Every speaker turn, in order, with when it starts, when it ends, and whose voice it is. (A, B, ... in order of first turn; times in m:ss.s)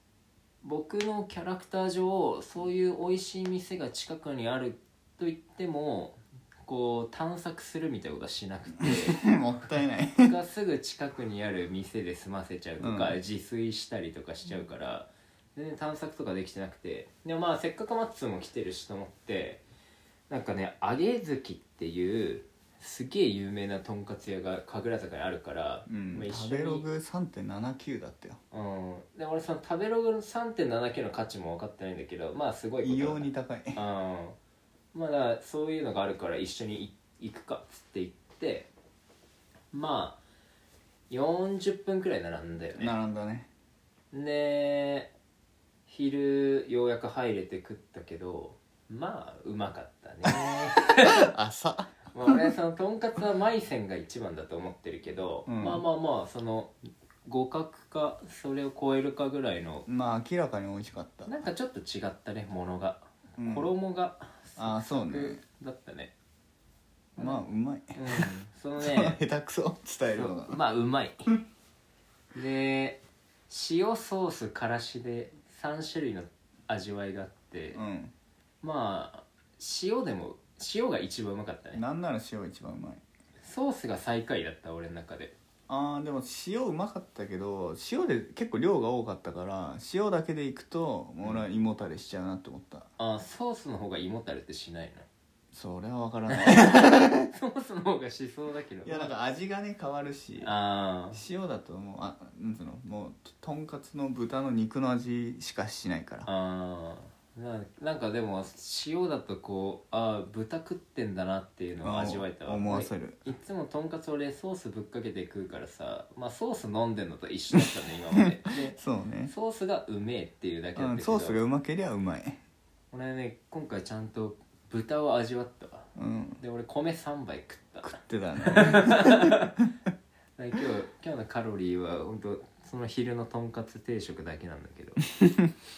0:00.6-0:09.3 A
0:08.8-0:10.4 B
0:10.2-0:19.6 A
0:12.8-0:13.2 B
0:20.3-0:26.8 A
0:25.9-0:28.4 B
0:28.5-0:34.4 A
0:32.8-0:33.8 B
0:34.9-0:38.7 A
0:39.7-0:40.2 A
0:41.1-0:42.9 A
0:42.8-0:43.5 B
0:44.1-0:45.1 A
0:45.9-0:51.2 A
0:51.0-0:52.4 B
0:52.1-0:56.7 A
0:55.4-0:55.8 B
0:57.2-0:59.9 A
0:59.9-1:01.3 B
1:01.2-1:06.1 A
1:03.4-1:03.7 B
1:04.6-1:05.4 B
1:07.1-1:10.6 B
1:07.2-1:09.2 A
1:10.1-1:11.3 A
1:12.3-1:17.8 A
1:17.7-1:18.1 B
1:18.6-1:21.8 A
1:21.7-1:23.0 B
1:23.4-1:25.3 A
1:25.7-1:32.9 B
1:33.0-1:35.0 A
1:35.5-1:37.3 B
1:36.3-1:39.1 A
1:38.8-1:40.5 B
1:40.4-1:41.2 A
1:41.1-1:46.3 B
1:46.2-2:01.4 A
1:51.8-1:53.2 B
1:58.5-1:59.3 B
2:00.8-2:02.4 B
2:02.9-2:09.5 A
2:06.0-2:06.4 B
2:07.8-2:09.5 B
2:10.4-2:15.0 A